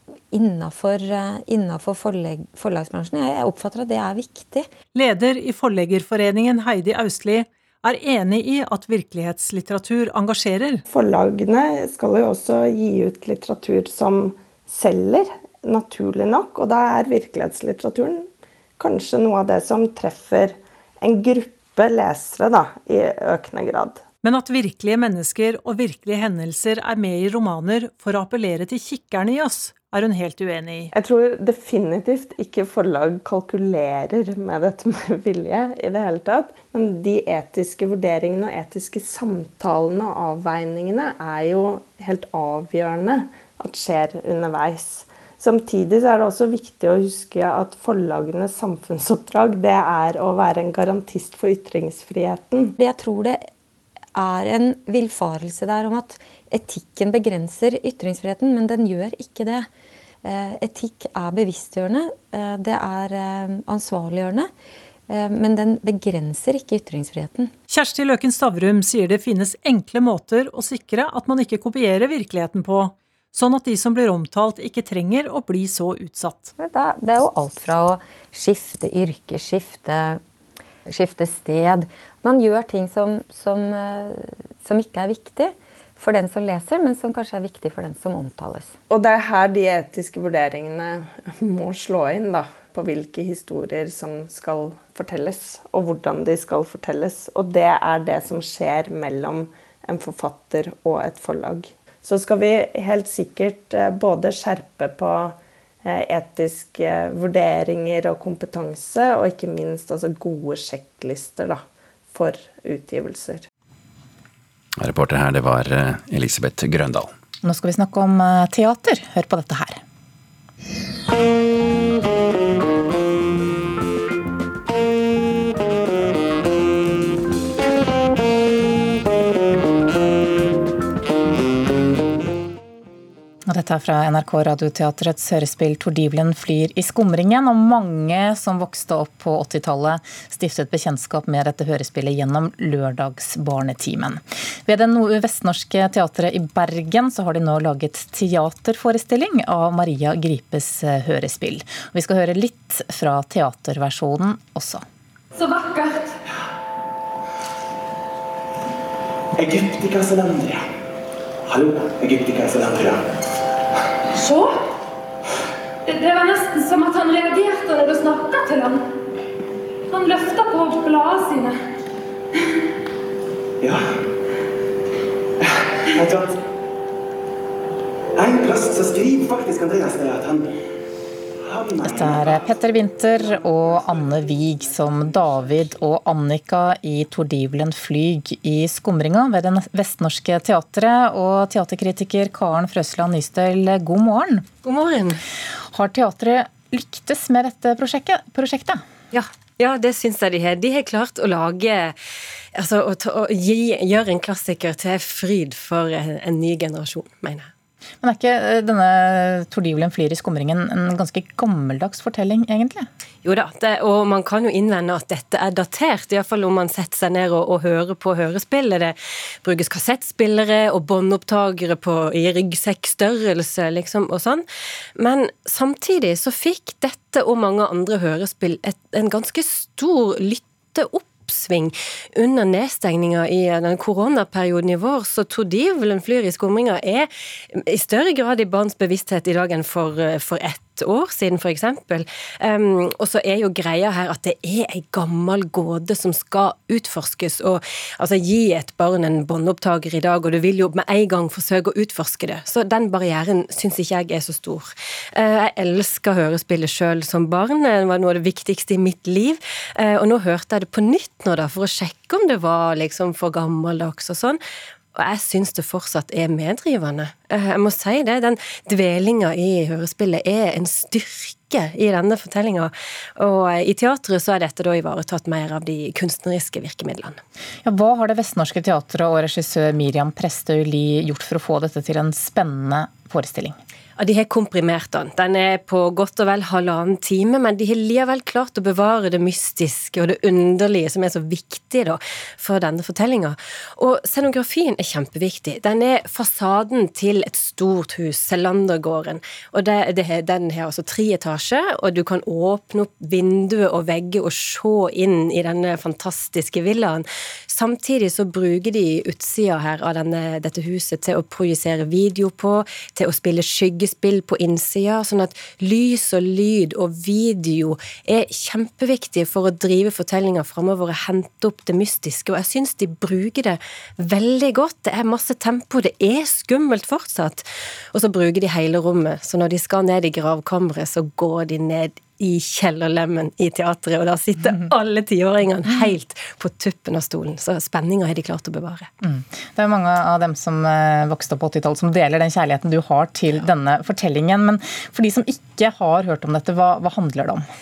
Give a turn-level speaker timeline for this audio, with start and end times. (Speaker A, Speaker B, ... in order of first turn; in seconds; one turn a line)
Speaker A: 0.3-4.7
Speaker B: 4.9-10.8
Speaker C: 10.9-24.0
Speaker B: 24.2-30.9
Speaker C: 30.9-52.7
Speaker A: 52.8-53.4
Speaker A: 54.2-59.7
Speaker A: 60.2-64.5
Speaker A: 65.1-67.5
Speaker B: 67.7-76.5
Speaker A: 76.6-80.2
Speaker A: 80.9-88.7
Speaker C: 88.9-113.5
Speaker D: 114.8-117.1
Speaker E: 117.4-119.8
Speaker E: 133.5-154.8
Speaker F: 155.4-156.2
Speaker G: 159.4-160.6
Speaker G: 161.5-163.0
Speaker F: 164.2-164.5
Speaker F: 165.9-168.9
Speaker F: 169.9-171.6
Speaker G: 176.0-176.4
Speaker G: 178.2-180.5
Speaker G: 181.5-182.4
Speaker E: 181.8-194.5
Speaker H: 194.6-195.2
Speaker E: 195.7-198.8
Speaker H: 199.1-202.0
Speaker H: 202.6-207.5
Speaker E: 208.0-212.9
Speaker H: 213.2-224.4
Speaker H: 225.0-264.4
Speaker H: 264.9-277.2
Speaker E: 277.6-283.6
Speaker H: 284.0-338.9
Speaker E: 339.0-347.5